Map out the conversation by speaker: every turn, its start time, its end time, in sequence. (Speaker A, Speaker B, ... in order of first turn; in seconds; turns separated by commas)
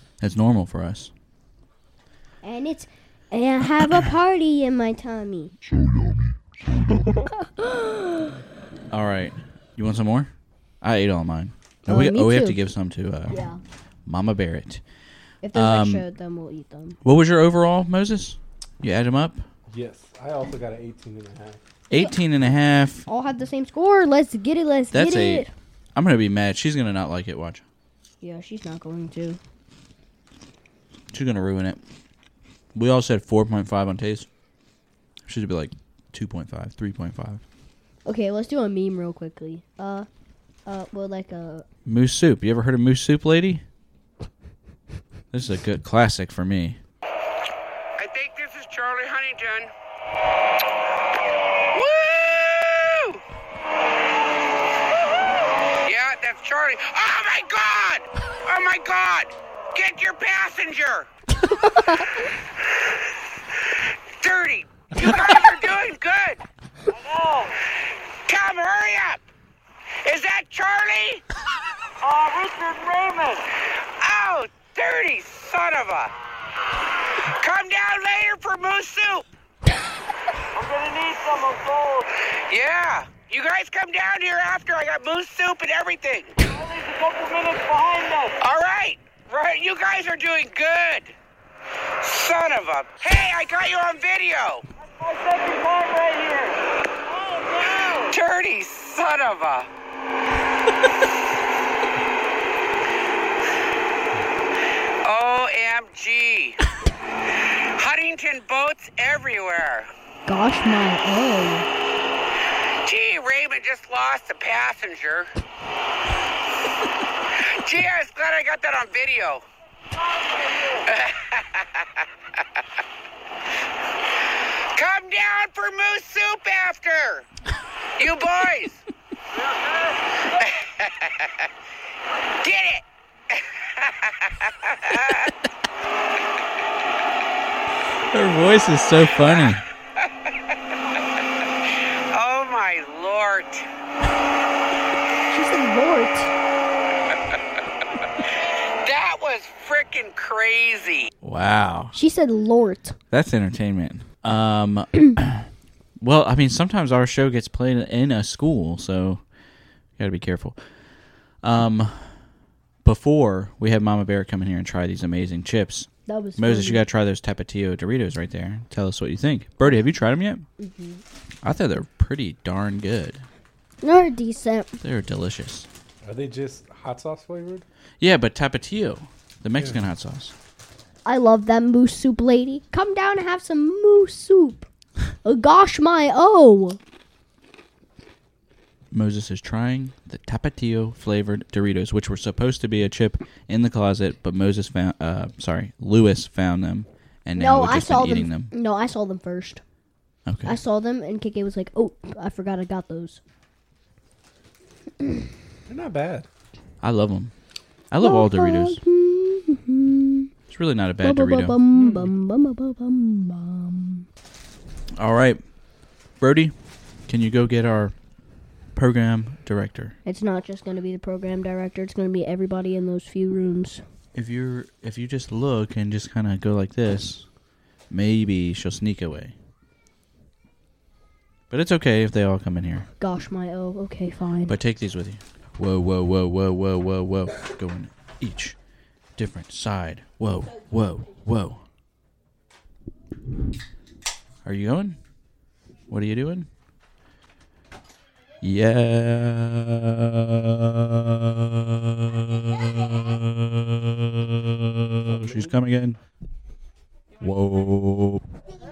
Speaker A: 0.2-1.1, Speaker B: 2.4-5.5, Speaker B: 7.6-8.3, Speaker A: 8.9-13.4, Speaker B: 11.9-12.6, Speaker B: 13.3-13.6, Speaker A: 14.1-14.8, Speaker B: 15.4-17.0, Speaker A: 15.5-16.0, Speaker A: 17.0-19.4, Speaker C: 19.7-21.6, Speaker A: 21.9-23.1, Speaker B: 23.1-25.5, Speaker A: 24.9-27.6, Speaker B: 28.2-29.4, Speaker A: 31.1-31.8, Speaker A: 32.7-34.3, Speaker A: 35.2-37.4, Speaker B: 38.0-40.1, Speaker B: 40.6-41.6, Speaker A: 41.8-43.6, Speaker A: 45.3-46.8, Speaker D: 48.0-49.7, Speaker D: 51.7-53.1, Speaker D: 55.8-61.1, Speaker D: 64.2-66.4, Speaker D: 68.3-69.2, Speaker D: 70.0-71.2, Speaker D: 74.0-76.1, Speaker D: 77.4-79.2, Speaker D: 82.5-86.3, Speaker D: 88.4-91.1, Speaker D: 92.0-94.6, Speaker D: 98.1-99.7, Speaker D: 105.0-106.6, Speaker D: 107.8-109.9, Speaker B: 110.3-111.7, Speaker D: 112.8-115.3, Speaker D: 117.6-119.4, Speaker D: 120.8-121.6, Speaker D: 124.8-127.2, Speaker D: 128.0-128.8, Speaker D: 130.4-130.9, Speaker D: 132.4-132.8, Speaker D: 134.4-135.3, Speaker A: 138.1-139.6, Speaker D: 142.1-143.7, Speaker B: 145.3-146.3, Speaker D: 148.8-151.1, Speaker A: 151.2-151.9, Speaker B: 151.9-153.0, Speaker A: 153.1-155.5, Speaker A: 156.0-159.2, Speaker A: 160.0-160.6, Speaker A: 161.4-162.2, Speaker A: 162.8-170.4, Speaker B: 166.1-166.8, Speaker B: 170.6-171.0, Speaker A: 171.4-173.2, Speaker B: 173.8-174.8, Speaker A: 174.8-175.7, Speaker C: 176.0-177.7, Speaker A: 178.0-180.3, Speaker B: 181.0-184.7, Speaker B: 185.2-186.8, Speaker A: 188.9-198.5, Speaker B: 197.3-199.6, Speaker A: 200.2-200.6, Speaker B: 200.4-203.2, Speaker C: 205.7-206.3, Speaker A: 206.8-207.3, Speaker A: 207.9-208.8, Speaker B: 208.0-210.3, Speaker A: 210.5-211.6, Speaker B: 211.0-214.1, Speaker C: 211.7-212.1, Speaker A: 214.9-215.4, Speaker A: 216.2-216.5, Speaker A: 217.1-217.9, Speaker A: 218.7-219.9, Speaker B: 220.0-223.8, Speaker A: 224.1-227.2, Speaker A: 227.9-229.3, Speaker A: 231.5-232.9, Speaker B: 233.0-234.5, Speaker A: 234.5-238.6, Speaker A: 239.2-241.6, Speaker A: 244.4-245.0, Speaker A: 245.9-246.5, Speaker A: 248.4-256.0, Speaker A: 257.2-258.2